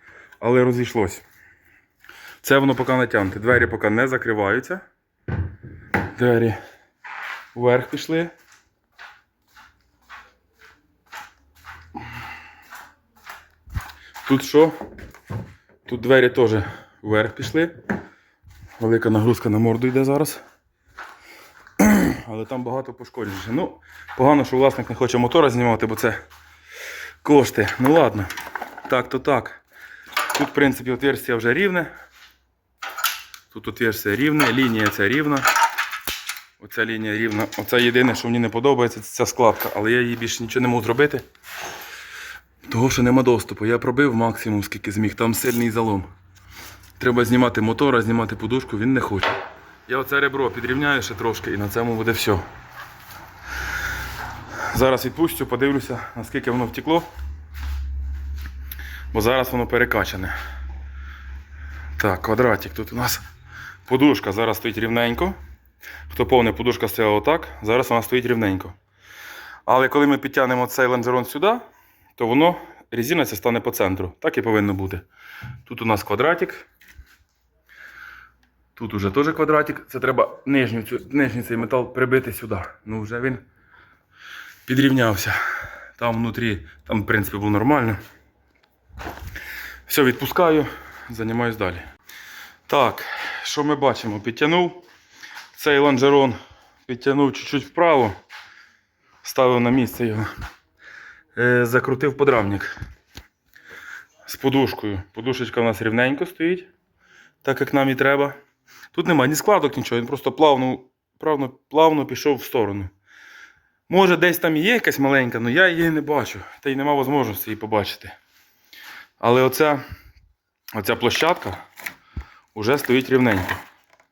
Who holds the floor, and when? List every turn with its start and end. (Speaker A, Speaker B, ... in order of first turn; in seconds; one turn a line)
Speaker A: 0.4-1.2
Speaker A: 2.4-4.8
Speaker A: 6.2-6.6
Speaker A: 7.5-8.3
Speaker A: 14.2-14.8
Speaker A: 15.9-17.8
Speaker A: 18.8-20.4
Speaker A: 21.8-26.2
Speaker A: 27.2-28.3
Speaker A: 28.9-29.6
Speaker A: 30.3-31.9
Speaker A: 33.5-35.5
Speaker A: 36.6-41.2
Speaker A: 42.7-46.1
Speaker A: 47.0-52.5
Speaker A: 54.6-57.1
Speaker A: 59.1-60.3
Speaker A: 62.0-63.2
Speaker A: 63.9-65.4
Speaker A: 66.1-68.8
Speaker A: 69.7-71.7
Speaker A: 72.2-75.0
Speaker A: 75.7-76.7
Speaker A: 78.8-83.4
Speaker A: 84.7-85.4
Speaker A: 86.0-88.0
Speaker A: 89.9-91.9
Speaker A: 92.7-94.8
Speaker A: 95.5-98.2
Speaker A: 99.2-100.3
Speaker A: 101.4-102.7
Speaker A: 104.2-106.7
Speaker A: 107.4-108.3
Speaker A: 108.9-112.9
Speaker A: 113.9-118.2
Speaker A: 119.2-119.8
Speaker A: 120.7-121.6
Speaker A: 122.5-123.6